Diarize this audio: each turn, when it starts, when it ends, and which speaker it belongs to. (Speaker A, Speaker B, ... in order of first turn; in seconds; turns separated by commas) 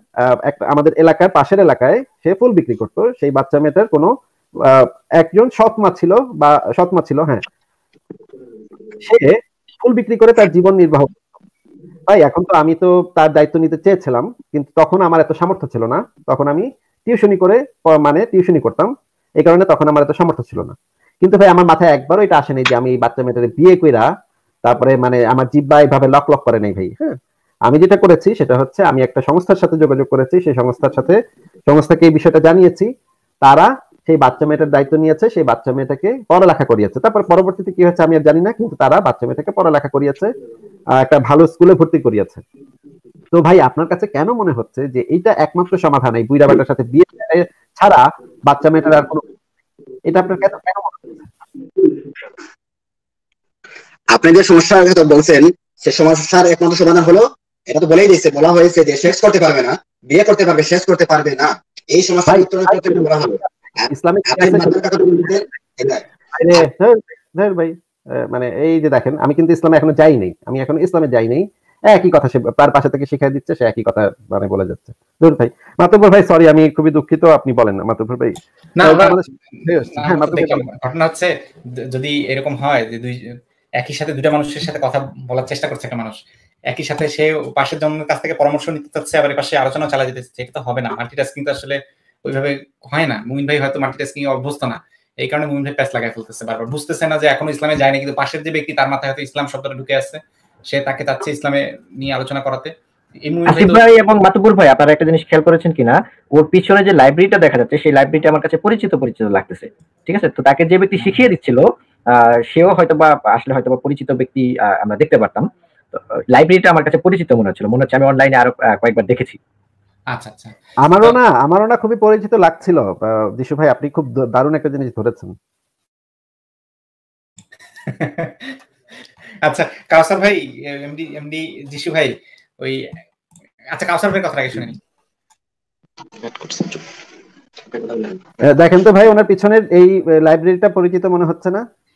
Speaker A: 0.5-4.1, Speaker A: 4.6-7.4, Speaker A: 9.0-11.1, Speaker A: 12.1-24.1, Speaker A: 24.6-31.2, Speaker A: 31.7-32.9, Speaker A: 33.4-40.3, Speaker A: 41.0-42.4, Speaker A: 43.3-49.2, Speaker A: 50.1-51.3, Speaker B: 54.1-66.0, Speaker A: 62.3-62.9, Speaker A: 63.9-64.7, Speaker A: 66.3-80.6, Speaker C: 78.8-79.2, Speaker C: 80.0-81.3, Speaker C: 81.9-86.2, Speaker C: 86.7-102.7, Speaker C: 103.2-103.8, Speaker D: 103.4-119.4, Speaker C: 120.1-121.2, Speaker A: 120.8-125.3, Speaker C: 127.9-128.6, Speaker C: 129.4-132.9, Speaker C: 133.7-134.8, Speaker B: 136.4-136.7, Speaker B: 137.7-138.1, Speaker A: 138.4-141.6